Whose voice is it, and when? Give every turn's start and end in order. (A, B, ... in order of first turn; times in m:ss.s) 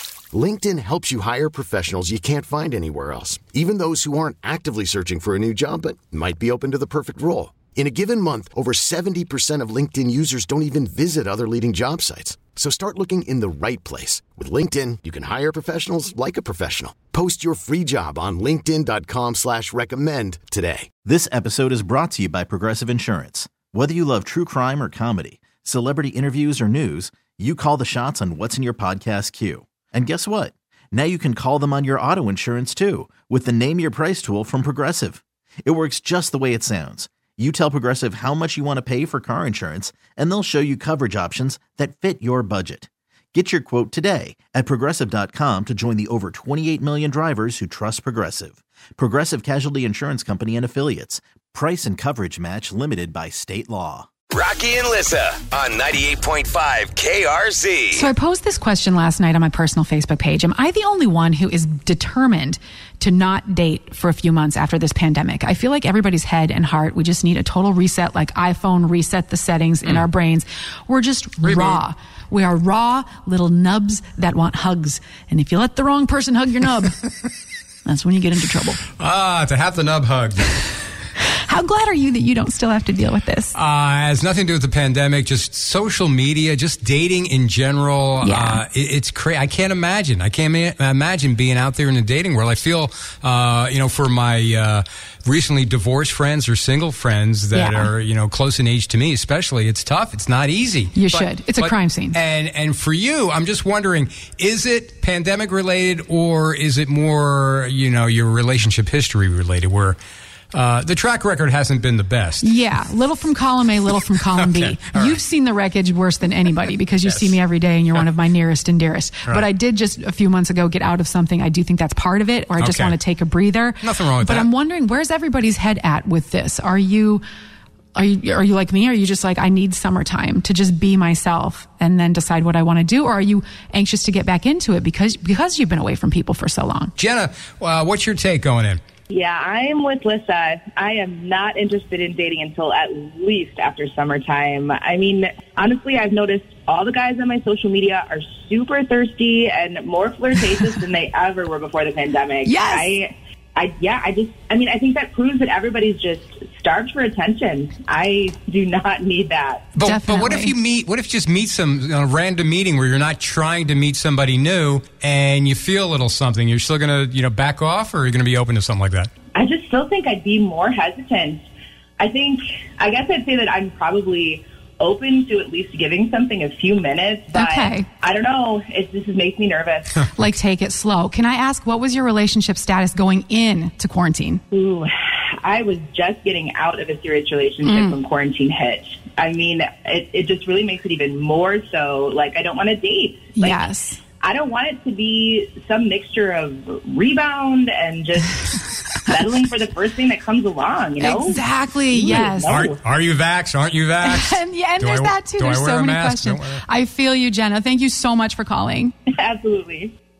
0:00.3-0:20.9 A
0:21.0-0:54.1 B
0:54.3-0:58.1 C
0:57.9-1:17.0 D
1:11.4-1:11.8 E
1:17.8-1:18.8 D
1:19.0-1:20.7 E
1:21.2-1:23.5 D
1:23.5-1:50.0 E
1:28.2-1:28.6 D
1:37.5-1:37.9 D
1:40.9-1:42.2 D
1:50.5-1:52.5 E
1:52.4-2:07.2 D
1:54.1-1:55.2 E
1:57.0-1:57.4 E
2:02.6-2:03.0 E
2:03.8-2:04.5 E
2:07.9-2:16.9 D
2:17.0-2:18.8 E
2:19.1-2:39.7 F
2:32.4-2:32.9 D
2:39.7-2:49.1 E
2:39.8-2:40.5 D
2:49.3-2:51.4 F
2:52.0-3:00.1 F
2:57.3-2:57.9 D
3:00.1-3:04.4 D
3:04.5-3:13.7 F
3:07.6-3:08.0 D
3:13.4-3:14.0 D
3:14.2-3:22.8 F
3:18.5-3:19.1 D
3:21.0-3:22.6 D
3:22.5-3:26.6 E
3:24.0-3:28.9 D
3:29.1-3:29.9 F